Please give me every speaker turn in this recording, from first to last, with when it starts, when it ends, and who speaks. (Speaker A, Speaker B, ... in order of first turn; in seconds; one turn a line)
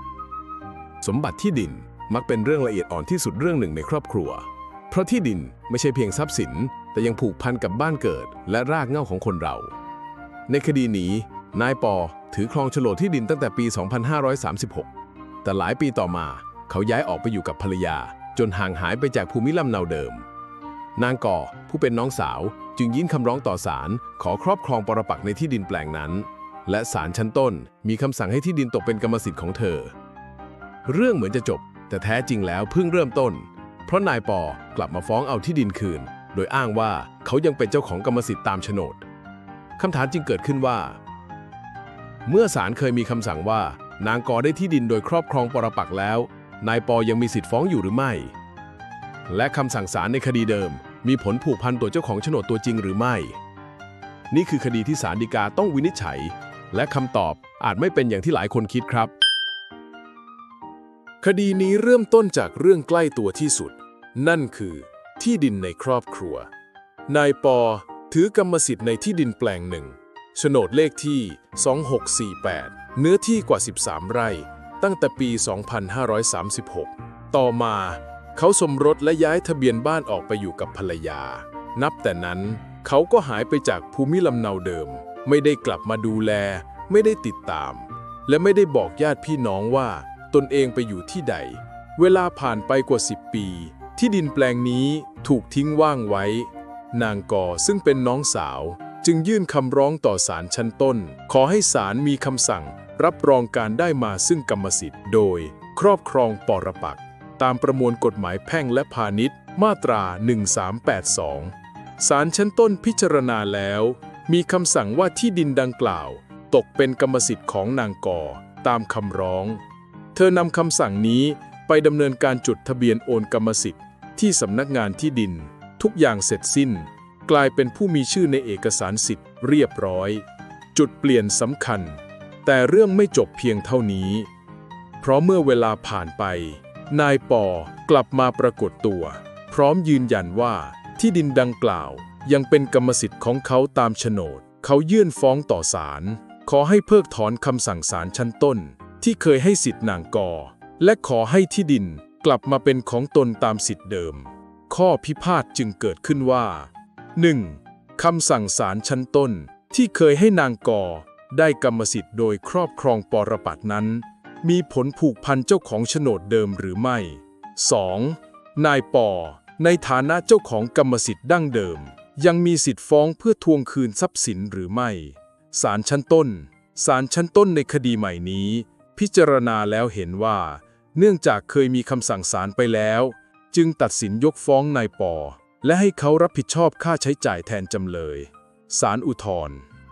Speaker A: 1.0-5.7
Speaker B: 2.1-2.7
Speaker B: 3.3-4.0
Speaker B: 5.4-9.6
Speaker A: 6.2-6.8
Speaker A: 7.4-8.4
Speaker A: 9.3-9.6
Speaker A: 10.5-11.5
Speaker B: 10.5-14.8
Speaker A: 14.1-14.8
Speaker A: 15.4-15.9
Speaker B: 15.5-20.2
Speaker A: 17.0-17.5
Speaker A: 21.0-21.7
Speaker B: 21.0-29.9
Speaker B: 30.9-39.0
Speaker A: 31.6-32.3
Speaker B: 39.8-40.9
Speaker B: 42.4-48.3
Speaker B: 49.3-53.3
Speaker B: 54.4-56.1
Speaker B: 56.8-57.1
Speaker B: 57.7-59.0
Speaker A: 61.2-66.5
Speaker A: 67.1-119.6
Speaker A: 120.1-134.3
Speaker A: 135.0-189.6